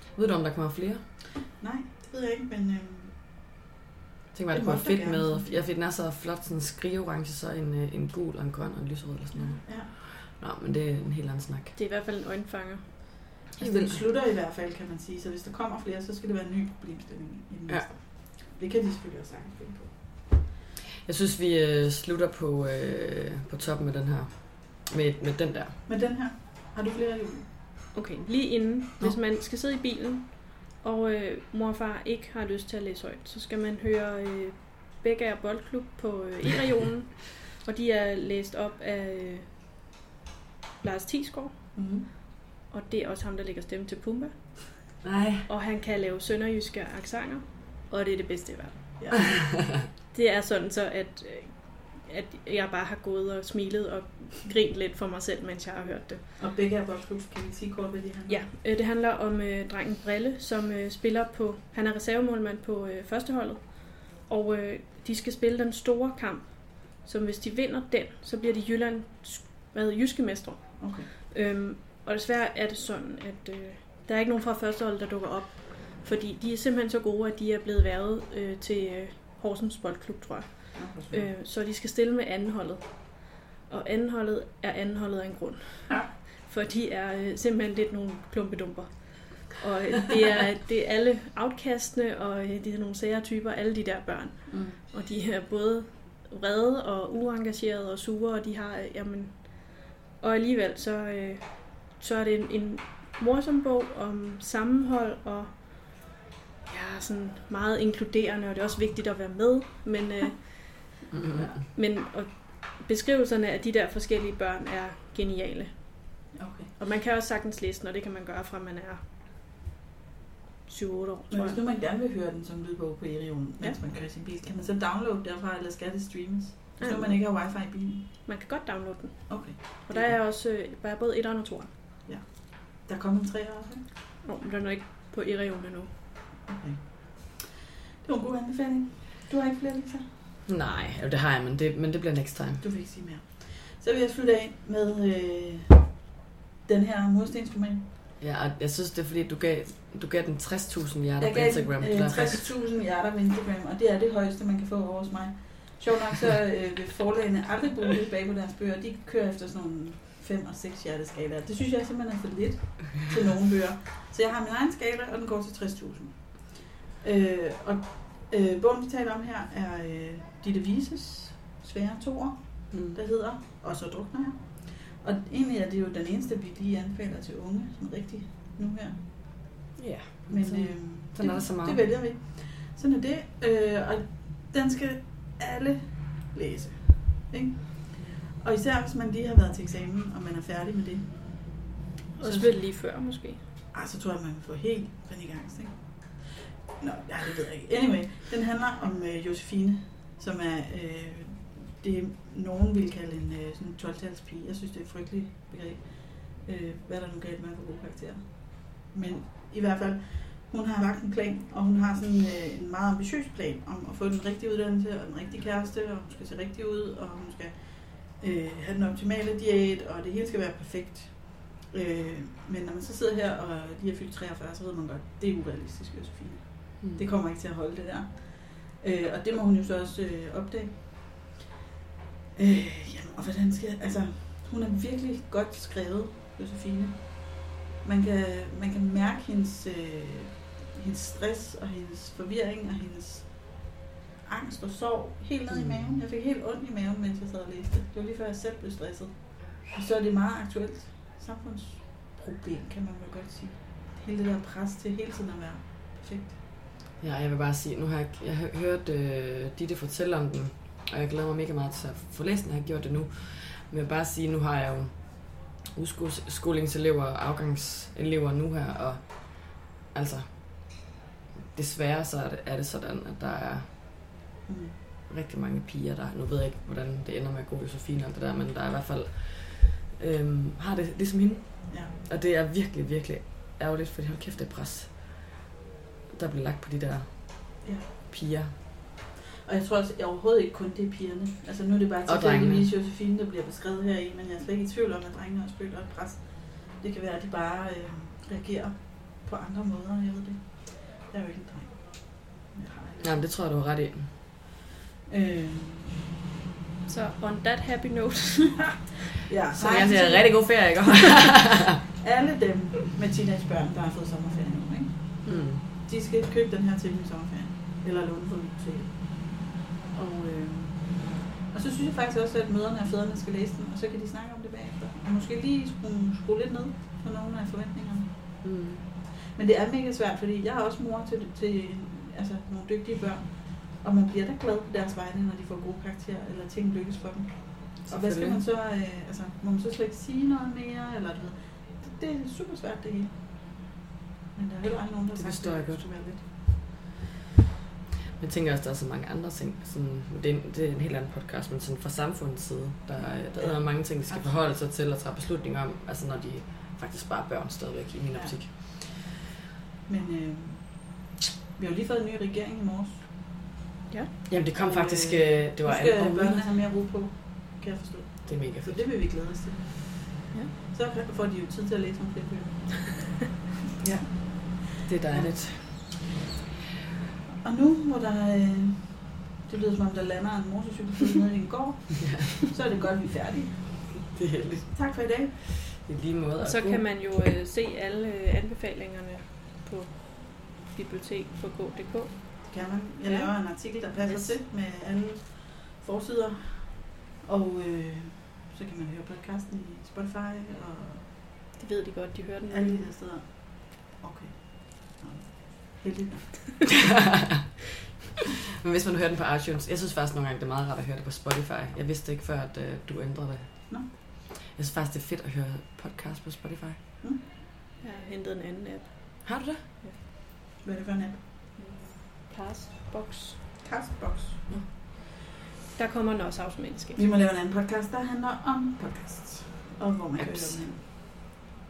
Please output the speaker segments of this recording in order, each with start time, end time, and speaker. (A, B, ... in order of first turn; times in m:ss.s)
0:00.1-0:01.1 A
0:01.6-0:03.2 B
0:04.3-0:11.8 A
0:04.5-0:05.6 B
0:09.6-0:09.9 B
0:11.8-0:13.0 C
0:13.6-0:14.0 A
0:13.6-0:20.0 B
0:17.7-0:18.0 A
0:21.0-0:25.8 A
0:25.9-0:27.5 B
0:27.9-0:39.7 C
0:40.8-0:56.3 C
0:41.7-0:42.1 B
0:45.0-0:45.5 A
0:49.0-0:49.3 B
0:56.4-0:58.4 B
0:58.3-1:46.2 C
1:10.8-1:11.1 B
1:20.7-1:21.3 B
1:34.5-1:34.8 B
1:46.7-1:59.1 C
1:51.1-1:51.4 A
1:56.3-1:56.7 B
2:00.7-2:01.6 C
2:01.3-2:08.3 B
2:06.8-2:07.5 C
2:08.2-2:11.7 C
2:09.3-2:10.2 B
2:12.0-2:13.8 B
2:14.2-2:15.9 C
2:16.4-2:17.5 B
2:18.0-2:20.1 B
2:20.4-2:22.6 A
2:22.6-2:25.9 B
2:26.6-2:27.9 B
2:28.2-2:32.5 A
2:31.2-2:59.6 B
2:52.7-2:53.0 A
2:59.8-3:01.8 A
3:00.3-3:12.6 B
3:12.2-3:13.4 C
3:13.7-3:51.4 B
3:52.4-4:16.4 B
4:05.5-4:06.0 A
4:17.0-4:30.8 A
4:31.5-4:33.7 A
4:34.5-4:34.8 B
4:35.1-4:45.2 A
4:41.7-4:42.0 B
4:46.1-4:48.5 A
4:47.6-4:47.9 B
4:49.4-5:03.2 B
4:52.1-4:52.7 A
5:03.0-5:04.1 A
5:05.1-5:06.0 B
5:06.9-5:09.0 C
5:09.3-5:10.4 B
5:09.5-5:11.8 A
5:12.0-5:28.5 B
5:15.3-5:15.6 A
5:28.4-5:28.8 A
5:29.2-5:43.7 B
5:37.9-5:38.4 A
5:44.4-5:46.3 B
5:45.2-5:45.9 A
5:48.2-5:58.8 A
5:53.0-5:54.6 B
5:58.1-5:58.9 B
5:59.9-6:03.1 B
6:04.3-6:06.5 A
6:04.6-6:13.3 B
6:08.3-6:08.9 A
6:13.8-6:15.9 A
6:13.9-6:15.8 B
6:17.4-6:25.4 B
6:22.0-6:22.3 A
6:24.0-6:27.1 A
6:26.4-6:34.4 C
6:32.4-6:41.1 B
6:41.6-6:43.0 C
6:42.5-6:46.8 B
6:46.9-6:47.4 A
6:48.6-6:56.8 A
6:57.8-7:00.0 C
6:59.2-6:59.6 A
7:00.6-7:01.2 B
7:01.6-7:03.5 C
7:03.6-7:04.5 B
7:05.7-7:07.1 C
7:07.0-7:10.9 B
7:10.2-7:10.7 A